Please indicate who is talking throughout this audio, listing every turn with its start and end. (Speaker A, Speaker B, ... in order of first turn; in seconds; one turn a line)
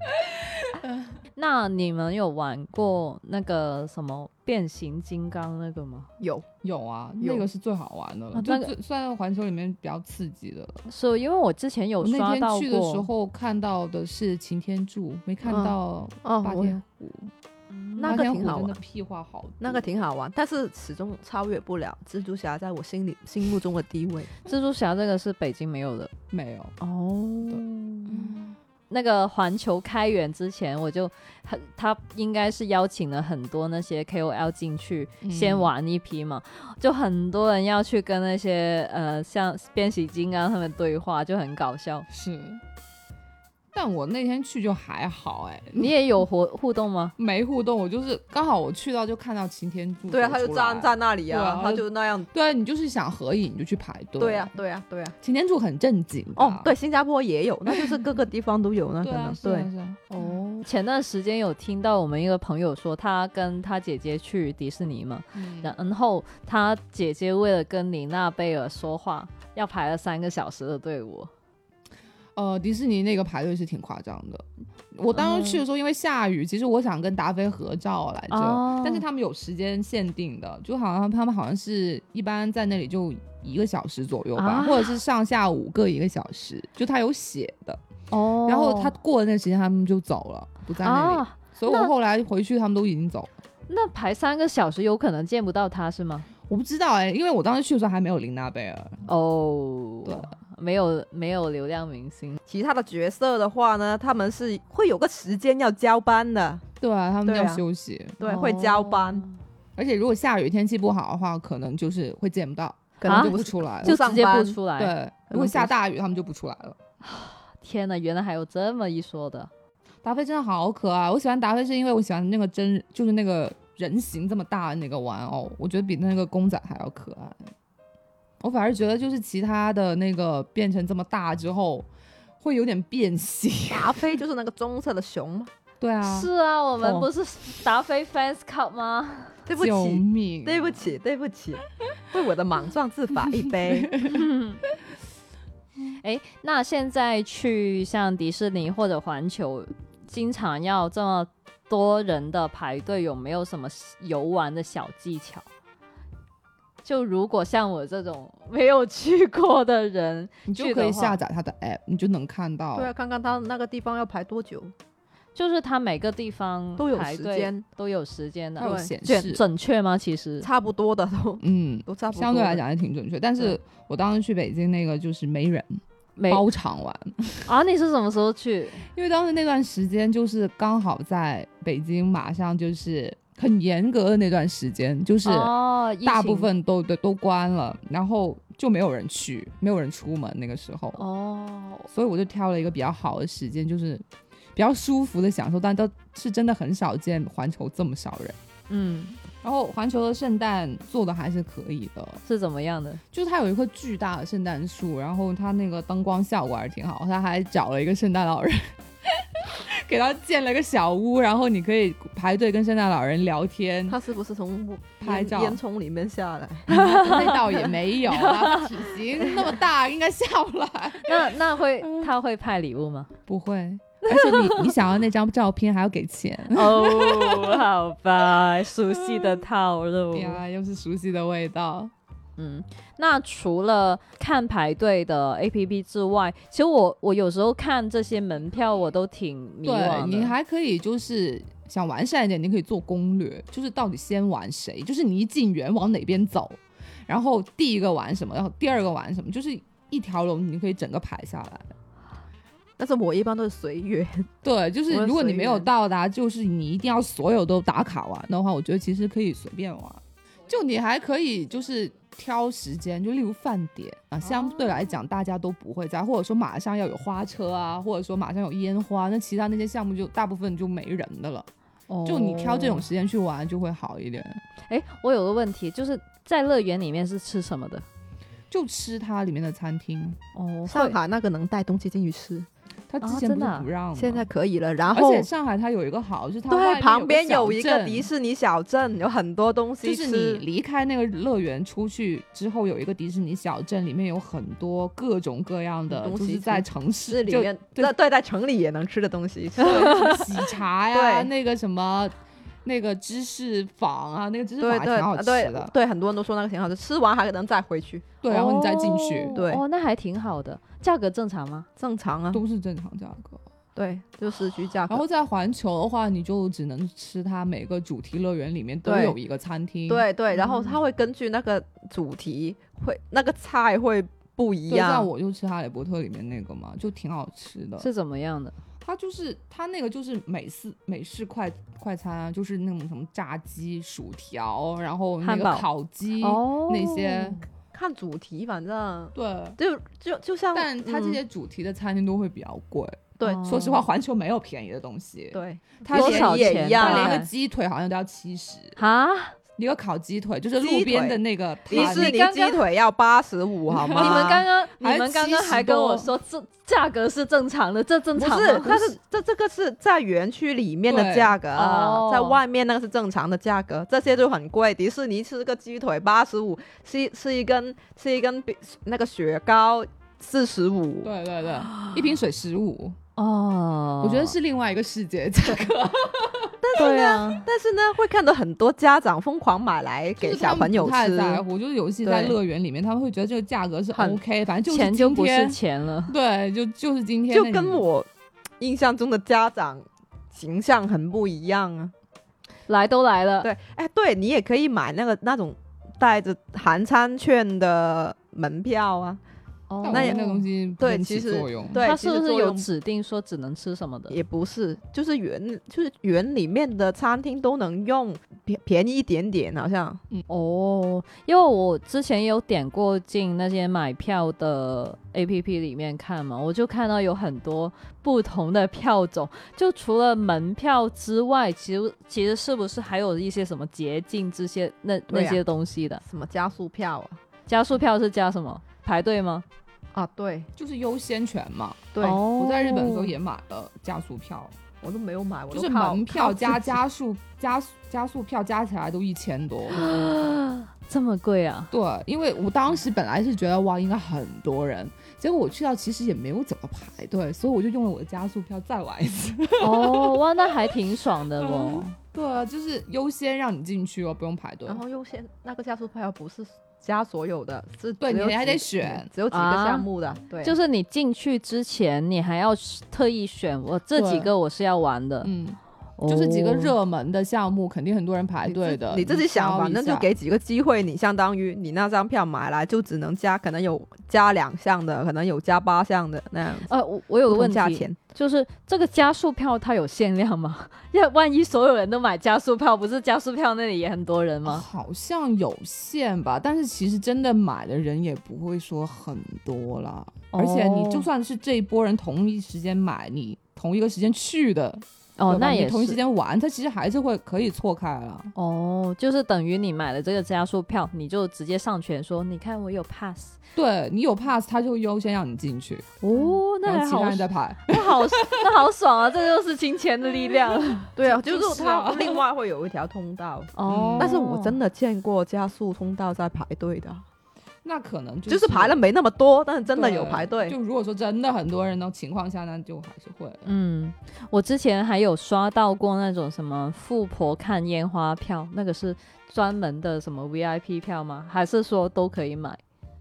Speaker A: 0.2-1.1
Speaker B: 1.4-6.1
Speaker C: 6.2-6.5
Speaker A: 6.6-10.8
Speaker C: 7.2-7.5
Speaker B: 8.3-8.7
Speaker B: 10.9-13.1
Speaker A: 12.0-17.3
Speaker C: 15.4-16.8
Speaker B: 17.7-18.2
Speaker C: 18.0-18.8
Speaker A: 18.0-19.8
Speaker C: 19.6-24.3
Speaker B: 24.5-26.1
Speaker A: 26.3-26.7
Speaker B: 26.8-28.4
Speaker A: 27.5-28.6
Speaker B: 28.9-42.0
Speaker A: 35.2-35.7
Speaker A: 42.1-42.6
Speaker A: 43.7-45.9
Speaker B: 45.8-47.1
Speaker A: 47.2-54.5
Speaker C: 50.1-52.3
Speaker C: 54.2-55.1
Speaker A: 55.2-56.7
Speaker C: 56.4-59.7
Speaker A: 57.7-57.9
Speaker A: 59.0-60.7
Speaker B: 60.2-71.3
Speaker A: 65.3-65.7
Speaker A: 72.4-87.8
Speaker B: 75.1-75.6
Speaker B: 78.3-79.0
Speaker B: 84.4-85.0
Speaker B: 88.1-88.9
Speaker A: 88.5-93.3
Speaker B: 90.8-91.9
Speaker B: 93.7-96.3
Speaker A: 96.5-99.0
Speaker B: 99.1-102.4
Speaker A: 100.0-100.3
Speaker C: 102.5-106.7
Speaker A: 106.8-108.3
Speaker C: 107.2-107.6
Speaker C: 108.2-109.2
Speaker B: 108.2-109.3
Speaker A: 109.8-114.0
Speaker C: 113.0-114.6
Speaker B: 113.1-114.9
Speaker A: 114.8-116.8
Speaker C: 115.3-115.7
Speaker B: 117.0-119.5
Speaker A: 120.0-127.5
Speaker A: 128.4-131.9
Speaker A: 132.4-134.2
Speaker C: 133.7-135.5
Speaker A: 135.8-136.3
Speaker B: 136.0-139.4
Speaker C: 139.5-143.9
Speaker A: 139.6-140.8
Speaker A: 143.7-144.2
Speaker B: 144.1-144.6
Speaker B: 146.0-155.5
Speaker B: 156.8-161.2
Speaker A: 160.5-162.9
Speaker C: 162.8-164.7
Speaker B: 165.3-170.5
Speaker C: 166.8-167.6
Speaker A: 168.6-169.4
Speaker C: 168.6-168.9
Speaker C: 170.4-172.6
Speaker A: 171.4-177.5
Speaker B: 176.2-176.4
Speaker B: 177.5-178.8
Speaker A: 178.9-191.0
Speaker B: 185.3-186.5
Speaker B: 191.0-191.9
Speaker A: 191.9-194.0
Speaker A: 194.6-198.4
Speaker B: 198.7-199.2
Speaker A: 199.4-202.2
Speaker B: 202.3-203.0
Speaker A: 203.1-214.0
Speaker C: 213.9-216.7
Speaker A: 215.0-215.6
Speaker A: 216.7-222.1
Speaker B: 216.7-218.8
Speaker B: 221.0-223.1
Speaker A: 223.3-227.6
Speaker B: 224.1-224.7
Speaker B: 226.5-230.4
Speaker A: 228.9-229.4
Speaker A: 230.1-231.9
Speaker B: 232.4-240.3
Speaker A: 239.6-251.7
Speaker C: 252.8-254.3
Speaker A: 254.4-271.5
Speaker C: 254.9-255.7
Speaker B: 264.2-264.9
Speaker B: 271.9-272.9
Speaker A: 272.1-274.4
Speaker B: 274.7-277.9
Speaker A: 278.5-280.2
Speaker B: 280.4-281.0
Speaker C: 280.7-282.5
Speaker A: 282.9-284.3
Speaker B: 283.0-283.7
Speaker C: 284.0-285.3
Speaker A: 284.9-288.1
Speaker C: 286.5-290.4
Speaker A: 289.8-297.9
Speaker C: 295.9-300.2
Speaker A: 299.6-302.1
Speaker B: 299.9-300.2
Speaker C: 300.9-301.3
Speaker A: 302.6-305.7
Speaker C: 304.6-308.1
Speaker A: 308.2-309.4
Speaker B: 308.3-311.7
Speaker C: 309.4-309.6
Speaker C: 311.8-312.4
Speaker A: 312.3-313.4
Speaker C: 313.8-315.0
Speaker A: 314.9-320.1
Speaker C: 318.9-319.2
Speaker C: 319.9-325.1
Speaker B: 320.3-320.8
Speaker A: 324.7-327.9
Speaker B: 327.8-328.6
Speaker A: 328.8-337.4
Speaker B: 335.2-335.6
Speaker B: 336.2-337.4
Speaker C: 337.7-341.2
Speaker A: 339.1-339.6
Speaker A: 340.5-348.8
Speaker C: 343.2-343.5
Speaker B: 343.2-343.8
Speaker C: 345.3-347.2
Speaker B: 345.9-347.3
Speaker B: 348.8-349.4
Speaker A: 349.6-352.2
Speaker C: 350.6-351.2
Speaker C: 351.7-354.4
Speaker B: 351.7-352.6
Speaker A: 353.7-356.1
Speaker B: 354.0-358.9
Speaker C: 358.2-371.1
Speaker A: 360.9-361.4
Speaker B: 361.5-362.4
Speaker A: 371.0-373.0
Speaker B: 373.2-374.4
Speaker A: 374.0-376.6
Speaker C: 376.6-381.4
Speaker B: 376.8-377.5
Speaker A: 380.2-387.9
Speaker C: 382.0-382.4
Speaker C: 383.9-384.2
Speaker B: 384.7-386.1
Speaker C: 387.3-388.1
Speaker C: 388.6-391.9
Speaker B: 392.7-393.5
Speaker C: 393.4-399.2
Speaker B: 399.7-400.4
Speaker A: 399.8-401.8
Speaker C: 399.9-400.2
Speaker C: 400.8-402.7
Speaker B: 401.8-404.2
Speaker C: 404.1-410.0
Speaker B: 410.3-426.0
Speaker C: 425.1-425.4
Speaker C: 426.0-427.2
Speaker B: 427.5-429.4
Speaker C: 429.9-430.5
Speaker A: 430.6-434.5
Speaker C: 431.9-432.2
Speaker B: 432.0-433.1
Speaker C: 434.8-436.8
Speaker A: 435.5-440.1
Speaker B: 439.7-441.7
Speaker A: 441.7-450.2
Speaker B: 449.6-451.9
Speaker A: 451.4-454.8
Speaker C: 454.7-460.6
Speaker A: 458.0-459.1
Speaker B: 459.3-459.9
Speaker B: 460.4-465.3
Speaker A: 463.9-464.3
Speaker A: 465.2-470.1
Speaker B: 466.0-466.8
Speaker C: 468.5-476.7
Speaker B: 476.7-484.6
Speaker C: 477.3-478.0
Speaker A: 484.4-498.3
Speaker B: 490.3-491.1
Speaker B: 495.2-496.0
Speaker B: 498.4-503.4
Speaker A: 503.6-506.0
Speaker B: 506.0-510.9
Speaker A: 506.6-508.5
Speaker C: 511.0-517.0
Speaker A: 511.0-512.2
Speaker B: 513.6-514.6
Speaker A: 513.7-514.2
Speaker A: 517.6-518.8
Speaker C: 518.3-520.6
Speaker A: 519.7-523.5
Speaker B: 523.5-532.6